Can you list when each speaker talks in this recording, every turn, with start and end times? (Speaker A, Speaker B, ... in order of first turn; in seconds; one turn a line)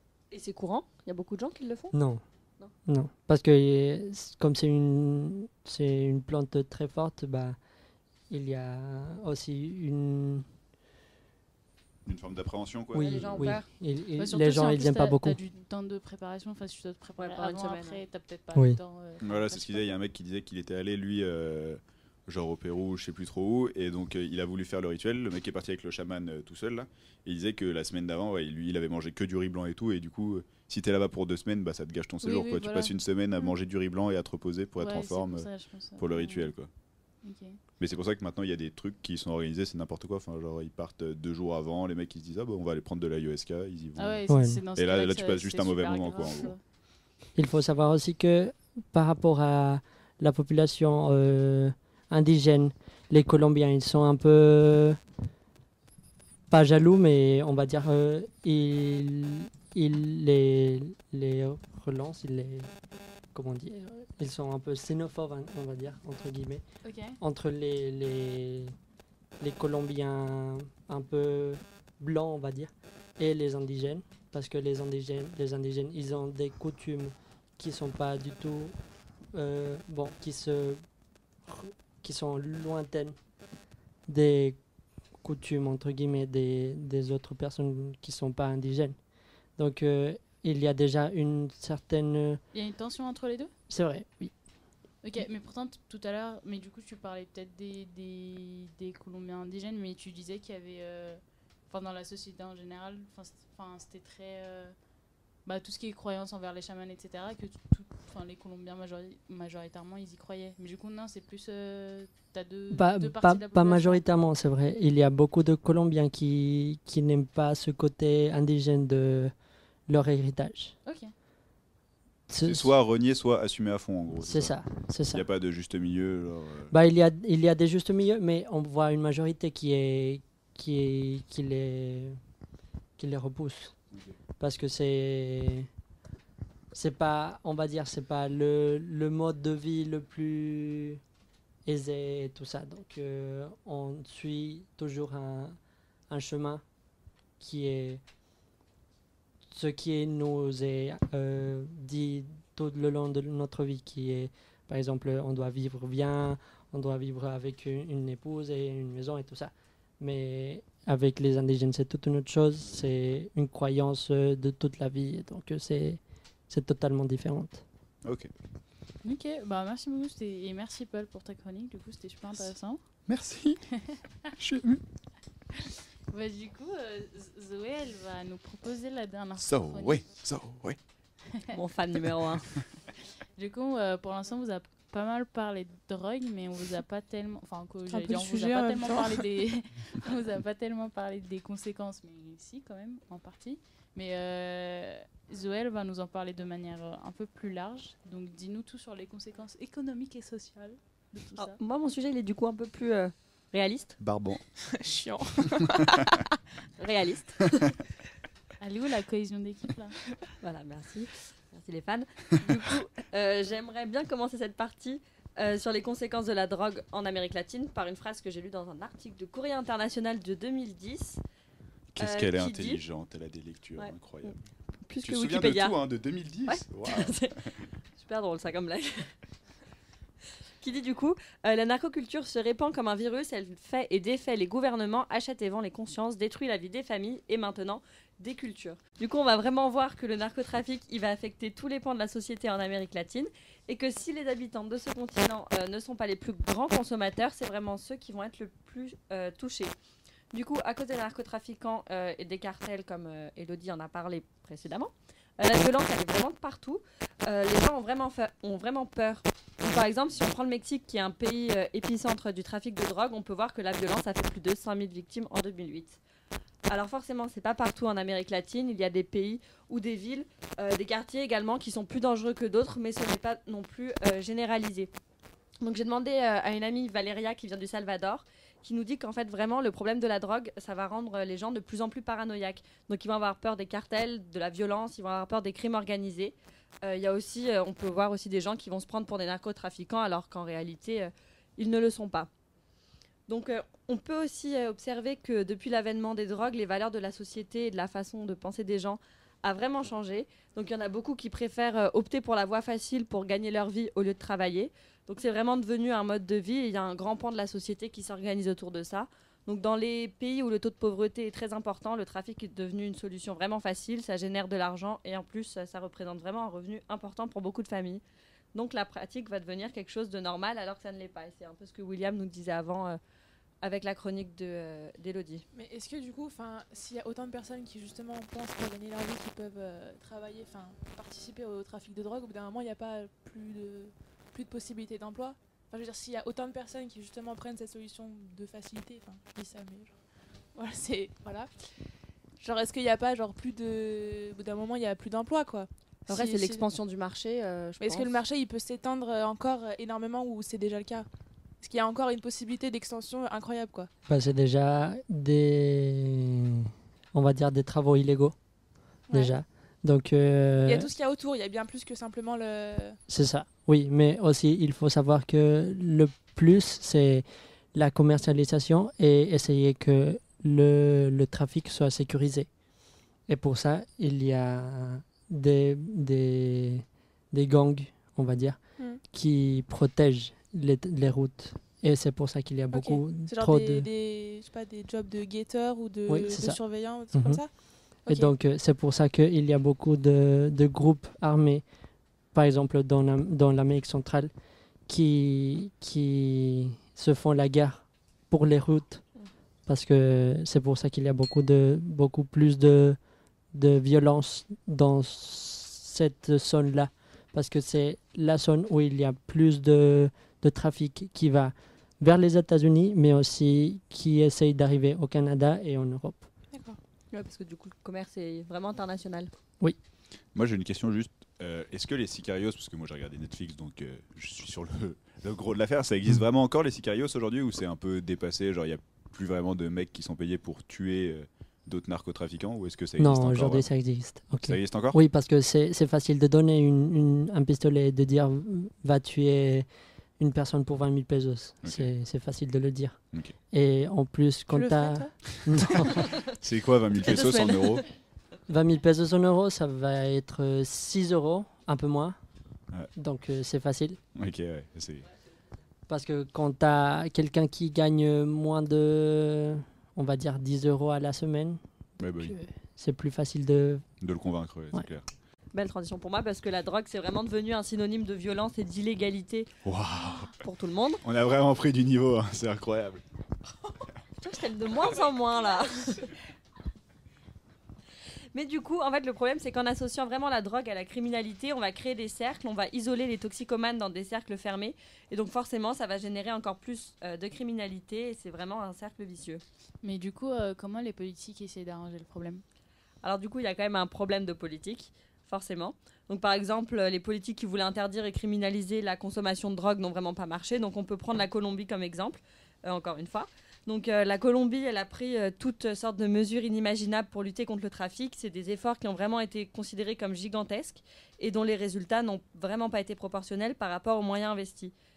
Speaker A: 0.3-2.0
Speaker B: 1.9-2.2
Speaker B: 2.9-7.6
Speaker B: 8.3-10.5
Speaker C: 12.1-13.2
Speaker B: 12.9-15.4
Speaker A: 13.0-13.7
Speaker D: 14.2-19.9
Speaker A: 17.2-18.0
Speaker B: 18.5-18.8
Speaker C: 19.2-36.7
Speaker D: 32.2-33.5
Speaker D: 34.8-36.5
Speaker D: 37.2-37.6
Speaker C: 37.8-44.2
Speaker D: 44.0-46.6
Speaker B: 44.3-44.6
Speaker C: 44.8-46.5
Speaker B: 47.4-55.0
Speaker B: 56.5-62.7
Speaker B: 63.3-66.6
Speaker D: 66.8-67.2
Speaker B: 67.2-68.8
Speaker B: 69.4-78.8
Speaker B: 79.3-80.8
Speaker B: 81.5-83.2
Speaker B: 84.1-84.6
Speaker B: 85.2-89.0
Speaker B: 89.6-92.4
Speaker D: 92.5-93.5
Speaker B: 93.7-94.3
Speaker D: 95.0-104.7
Speaker D: 105.5-114.1
Speaker B: 112.7-119.3
Speaker B: 119.9-120.8
Speaker D: 120.9-121.1
Speaker B: 122.3-122.7
Speaker C: 122.4-124.6
Speaker B: 124.2-125.2
Speaker C: 125.1-126.7
Speaker B: 126.7-132.2
Speaker B: 133.0-133.8
Speaker B: 134.4-135.7
Speaker B: 136.7-141.0
Speaker B: 141.7-145.6
Speaker B: 146.1-146.6
Speaker B: 147.4-148.0
Speaker B: 149.5-167.6
Speaker C: 168.1-168.3
Speaker D: 169.0-172.8
Speaker C: 173.1-173.7
Speaker C: 174.3-174.8
Speaker D: 176.1-180.1
Speaker C: 179.4-180.8
Speaker A: 181.5-182.5
Speaker D: 183.4-201.6
Speaker E: 187.9-189.2
Speaker A: 201.4-204.0
Speaker C: 204.0-204.4
Speaker E: 204.7-206.2
Speaker A: 206.8-207.7
Speaker D: 208.6-210.0
Speaker A: 210.4-221.2
Speaker A: 221.9-222.8
Speaker C: 222.0-224.4
Speaker A: 223.8-225.8
Speaker C: 225.0-227.2
Speaker A: 226.5-227.4
Speaker A: 228.0-229.1
Speaker A: 230.6-249.7
Speaker A: 250.3-266.0
Speaker A: 266.7-274.9
Speaker A: 275.6-292.3
Speaker A: 293.3-318.0
Speaker A: 318.5-323.0
Speaker A: 323.6-325.4
Speaker E: 325.5-340.0
Speaker E: 340.6-341.8
Speaker E: 342.4-346.6
Speaker A: 346.1-348.2
Speaker E: 347.8-351.1
Speaker E: 351.6-353.9
Speaker B: 354.1-358.4
Speaker E: 359.1-359.4
Speaker B: 359.1-360.9
Speaker E: 360.7-363.0
Speaker B: 363.1-372.5
Speaker B: 373.3-383.9
Speaker E: 382.7-387.5
Speaker B: 386.1-386.6
Speaker B: 387.1-387.4
Speaker B: 387.9-391.6
Speaker E: 388.1-388.3
Speaker B: 392.3-394.3
Speaker B: 394.9-399.0
Speaker B: 399.7-403.0
Speaker B: 403.5-416.3
Speaker E: 416.5-416.8
Speaker A: 417.1-419.3
Speaker C: 420.4-433.7
Speaker B: 433.0-439.7
Speaker C: 434.4-435.0
Speaker B: 440.2-446.1
Speaker C: 441.6-441.9
Speaker E: 444.5-446.0
Speaker C: 446.3-447.9
Speaker E: 447.0-447.8
Speaker B: 448.5-452.2
Speaker B: 453.0-454.0
Speaker C: 454.1-455.1
Speaker B: 455.9-461.6
Speaker C: 462.0-462.4
Speaker B: 462.2-463.9
Speaker C: 464.0-465.1
Speaker A: 465.5-469.5
Speaker C: 469.6-470.4
Speaker A: 470.4-471.0
Speaker C: 471.0-473.0
Speaker A: 474.2-476.1
Speaker A: 478.3-489.4
Speaker D: 489.8-492.4
Speaker A: 493.0-514.7